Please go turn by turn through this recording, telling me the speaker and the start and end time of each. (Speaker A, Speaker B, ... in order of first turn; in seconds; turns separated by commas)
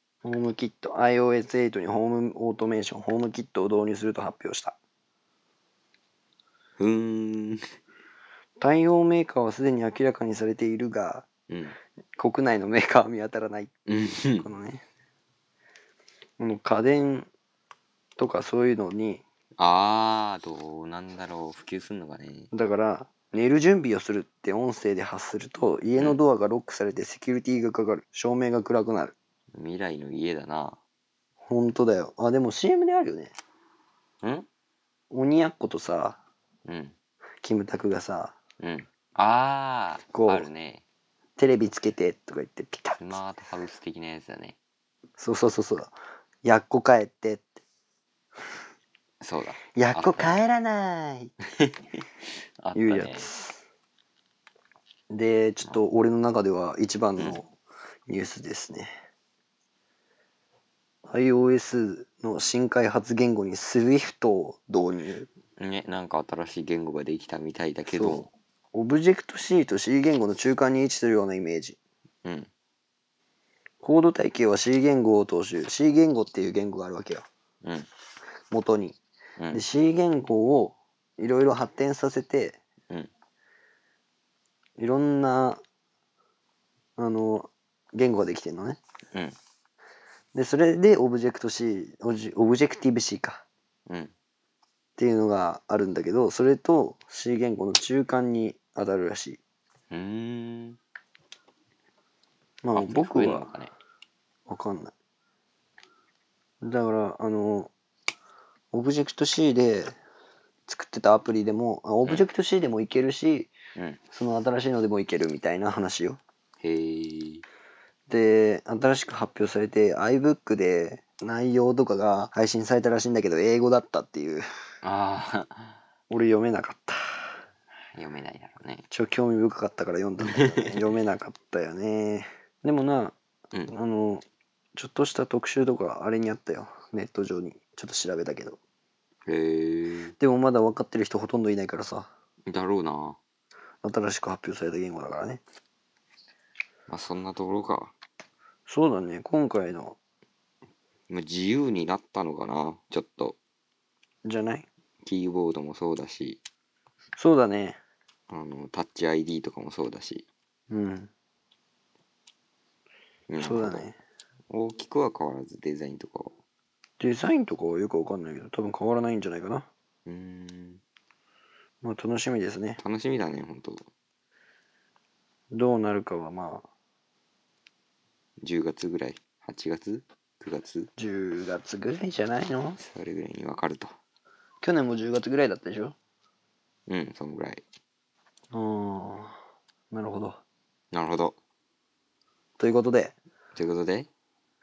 Speaker A: 0.2-4.7, Speaker B: 6.8-7.6, Speaker A: 8.6-11.3, Speaker B: 11.5-11.8, Speaker A: 12.2-13.7, Speaker B: 13.9-14.5, Speaker A: 14.4-14.8, Speaker A: 16.4-17.3, Speaker A: 18.2-19.2, Speaker B: 19.6-22.5, Speaker A: 22.5-29.1, Speaker B: 29.5-30.8, Speaker A: 31.5-33.3, Speaker B: 34.2-34.5, Speaker A: 35.1-36.2, Speaker B: 36.6-36.9, Speaker A: 37.4-38.3, Speaker B: 38.6-40.8, Speaker A: 40.1-40.5, Speaker A: 41.4-43.1, Speaker B: 43.0-44.6, Speaker A: 45.2-47.6, Speaker B: 49.2-50.4, Speaker A: 49.7-51.3, Speaker B: 52.6-53.3, Speaker A: 52.8-53.6, Speaker A: 55.1-57.5, Speaker A: 58.1-58.9, Speaker A: 61.0-65.3, Speaker B: 65.6-68.3, Speaker A: 67.9-71.8, Speaker A: 73.8-77.2, Speaker A: 78.5-79.0, Speaker A: 79.5-82.6, Speaker A: 84.8-85.6, Speaker A: 87.0-88.8, Speaker A: 90.3-93.4, Speaker A: 95.0-99.4, Speaker B: 99.9-100.8, Speaker A: 102.6-103.5, Speaker B: 102.7-103.7, Speaker A: 104.5-104.9, Speaker A: 106.6-107.7, Speaker A: 108.7-109.9, Speaker A: 110.7-113.5, Speaker A: 114.1-116.2, Speaker B: 116.6-117.4, Speaker A: 118.1-124.5, Speaker B: 124.8-125.8, Speaker A: 126.1-127.4, Speaker B: 127.9-128.8, Speaker A: 128.9-133.2, Speaker B: 130.2-130.9, Speaker A: 133.7-134.2, Speaker A: 134.8-138.6, Speaker B: 139.2-140.1, Speaker A: 140.2-142.1, Speaker B: 142.5-143.2, Speaker A: 143.8-145.4, Speaker B: 146.9-147.9, Speaker A: 148.7-150.0, Speaker B: 151.1-153.4, Speaker A: 154.2-154.7, Speaker B: 155.0-156.4, Speaker A: 157.2-157.8, Speaker B: 158.3-160.2, Speaker A: 160.7-161.1, Speaker B: 163.3-163.8, Speaker A: 163.4-164.0, Speaker B: 164.5-166.3, Speaker A: 167.0-169.7, Speaker B: 170.1-170.8, Speaker A: 171.8-172.8, Speaker B: 172.8-173.8, Speaker A: 175.5-176.7, Speaker B: 178.4-180.9, Speaker A: 181.0-182.8, Speaker B: 182.8-183.9, Speaker A: 184.6-185.9, Speaker B: 186.9-187.6, Speaker A: 188.5-189.4, Speaker A: 189.9-190.4, Speaker B: 190.9-191.3, Speaker A: 192.6-193.1, Speaker B: 193.6-194.1